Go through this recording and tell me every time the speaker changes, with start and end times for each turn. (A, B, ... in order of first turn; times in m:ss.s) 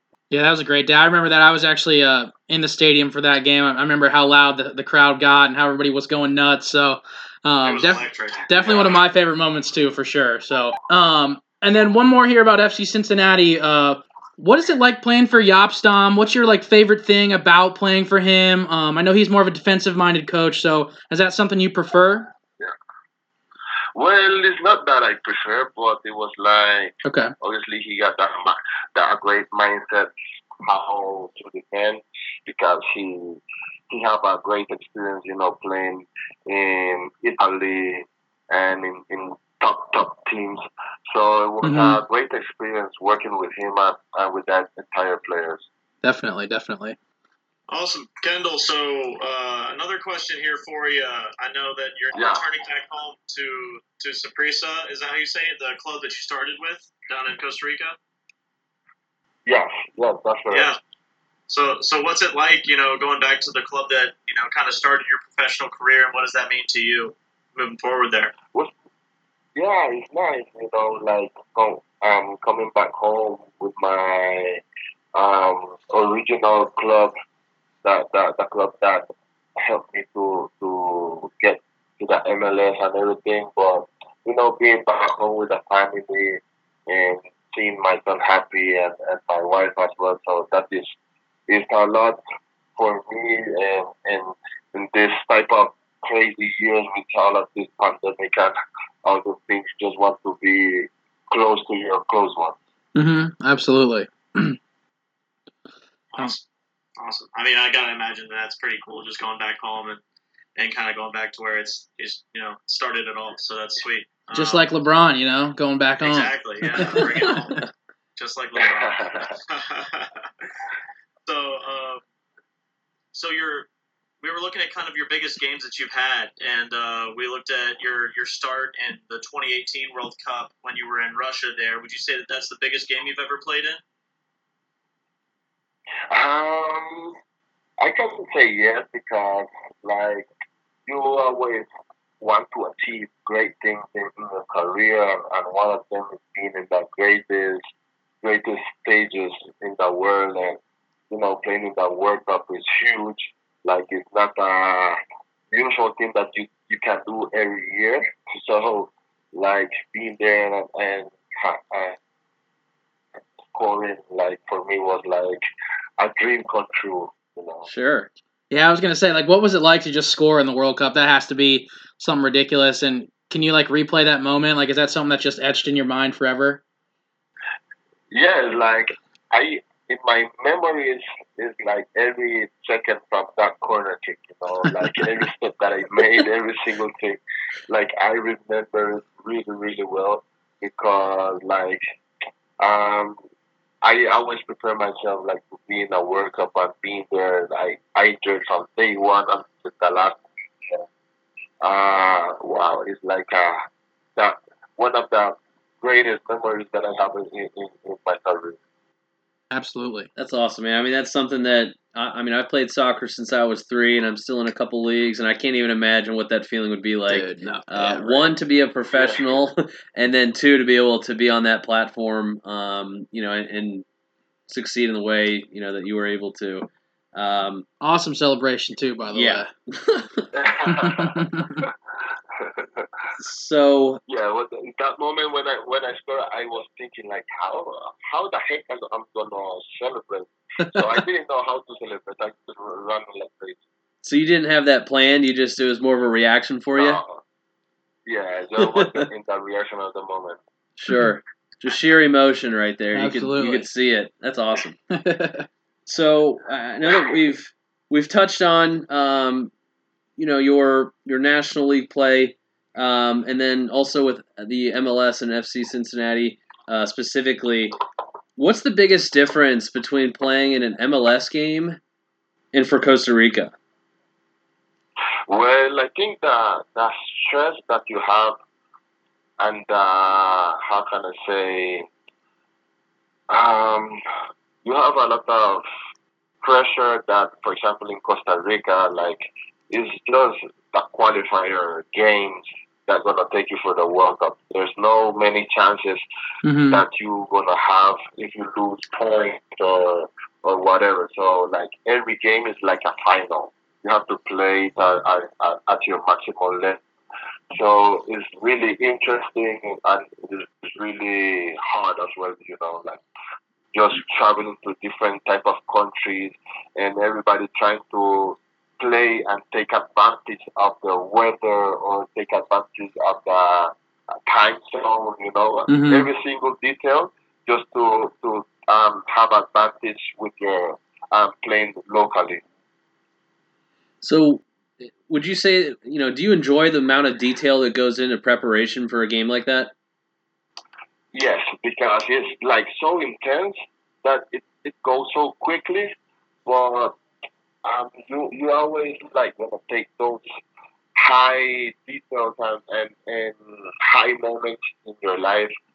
0:00.3-0:22.3 A
0:07.6-0:08.9 B
0:23.9-0:45.6 C
0:27.0-0:27.3 A
0:41.6-0:42.0 A
0:46.0-0:47.0 A
0:47.7-0:58.0 B
0:52.1-0:52.4 C
0:59.4-1:00.7 C
1:00.5-1:00.8 B
1:01.5-1:08.3 B
1:09.6-1:14.6 C
1:15.1-1:17.1 C
1:17.8-1:19.0 C
1:19.6-1:30.9 C
1:31.5-1:32.2 C
1:32.8-1:42.6 C
1:42.9-1:44.6 A
1:46.1-1:46.4 B
1:47.0-1:50.0 B
1:50.6-1:54.6 B
1:54.3-1:57.6 A
1:56.0-2:00.3 B
1:56.8-1:57.3 D
1:58.6-1:59.4 C
2:01.2-2:02.0 B
2:03.1-2:03.7 B
2:04.2-2:13.8 B
2:16.1-2:17.2 C
2:17.8-2:20.3 C
2:20.9-2:21.7 C
2:22.2-2:27.6 C
2:28.2-2:30.6 C
2:31.1-2:35.0 C
2:35.5-2:42.0 C
2:43.5-2:45.4 C
2:46.0-2:47.7 C
2:47.7-2:48.1 D
2:48.5-2:56.6 A
2:58.1-3:11.8 C
3:12.6-3:13.2 C
3:13.8-3:20.8 C
3:21.6-3:23.6 C
3:24.2-3:28.6 C
3:29.5-3:30.1 A
3:30.2-3:43.8 D
3:37.1-3:38.3 A
3:38.9-3:39.4 C
3:44.5-3:47.6 D
3:47.8-3:49.5 A
3:49.1-3:50.3 D
3:50.3-3:51.7 C
3:50.7-3:51.6 A
3:52.3-3:53.0 C
3:53.1-3:54.0 D
3:54.1-4:03.6 C
4:04.0-4:07.0 D
4:06.8-4:07.2 C
4:08.1-4:10.4 C
4:08.6-4:09.1 D
4:10.8-4:14.8 D
4:12.9-4:13.6 A
4:14.9-4:15.5 A
4:15.9-4:19.5 D
4:20.2-4:27.8 D
4:28.4-4:31.8 D
4:32.5-4:33.5 D
4:35.3-4:38.4 C
4:39.4-4:41.9 C
4:43.3-4:44.0 C
4:44.6-4:45.6 C
4:46.4-4:56.0 C
4:56.4-4:56.8 A
4:56.7-5:06.8 C
5:07.5-5:13.0 C
5:13.7-5:23.7 C
5:24.2-5:32.4 C
5:25.7-5:26.1 A
5:34.0-5:39.7 D
5:41.1-5:45.9 C
5:46.4-5:47.0 C
5:47.6-5:50.2 C
5:50.9-5:55.5 C